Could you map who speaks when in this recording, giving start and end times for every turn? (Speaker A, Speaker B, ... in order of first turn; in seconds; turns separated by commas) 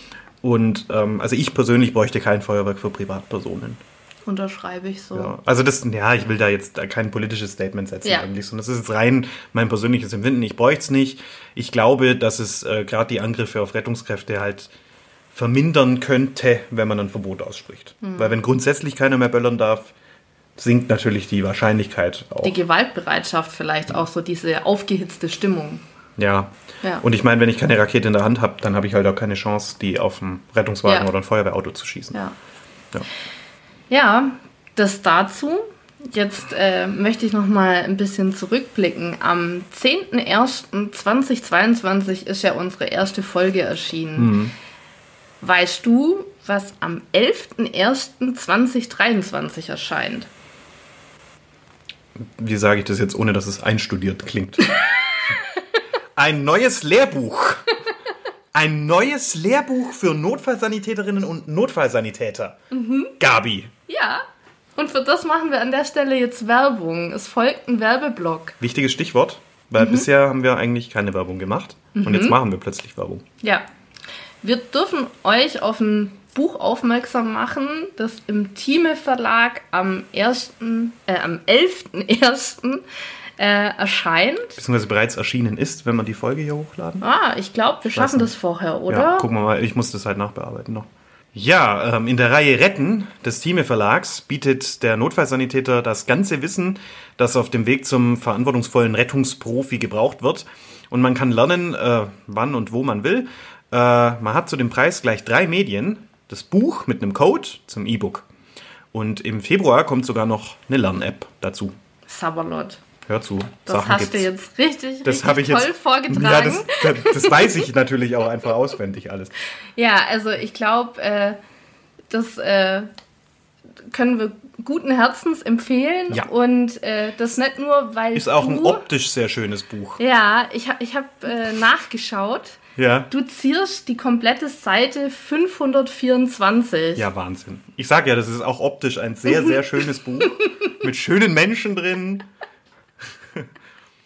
Speaker A: 0.4-3.8, Speaker B: 4.2-5.3, Speaker A: 5.1-14.7, Speaker A: 15.3-19.9, Speaker B: 18.0-18.4, Speaker A: 20.6-22.6, Speaker B: 22.4-25.8, Speaker A: 26.2-32.2, Speaker B: 33.9-44.3, Speaker A: 44.1-44.5, Speaker B: 45.4-50.3, Speaker A: 52.1-54.7, Speaker A: 56.1-57.6, Speaker A: 58.5-62.6, Speaker B: 62.7-63.1, Speaker A: 63.2-63.7, Speaker B: 63.9-64.2, Speaker B: 64.8-68.6, Speaker A: 68.6-73.2, Speaker B: 69.8-70.0, Speaker B: 71.9-72.3, Speaker B: 74.4-82.8, Speaker B: 83.4-84.6, Speaker A: 84.6-87.0, Speaker B: 87.0-89.3, Speaker A: 87.9-88.3, Speaker A: 88.9-108.2, Speaker A: 108.9-111.8, Speaker B: 112.1-112.8, Speaker A: 113.0-114.3, Speaker B: 113.7-117.6, Speaker A: 115.0-119.3, Speaker B: 119.8-121.4, Speaker B: 122.1-122.9, Speaker B: 123.9-128.8, Speaker A: 128.1-130.0, Speaker B: 130.0-132.6, Speaker A: 132.8-133.1, Speaker B: 133.1-137.1, Speaker A: 136.9-142.3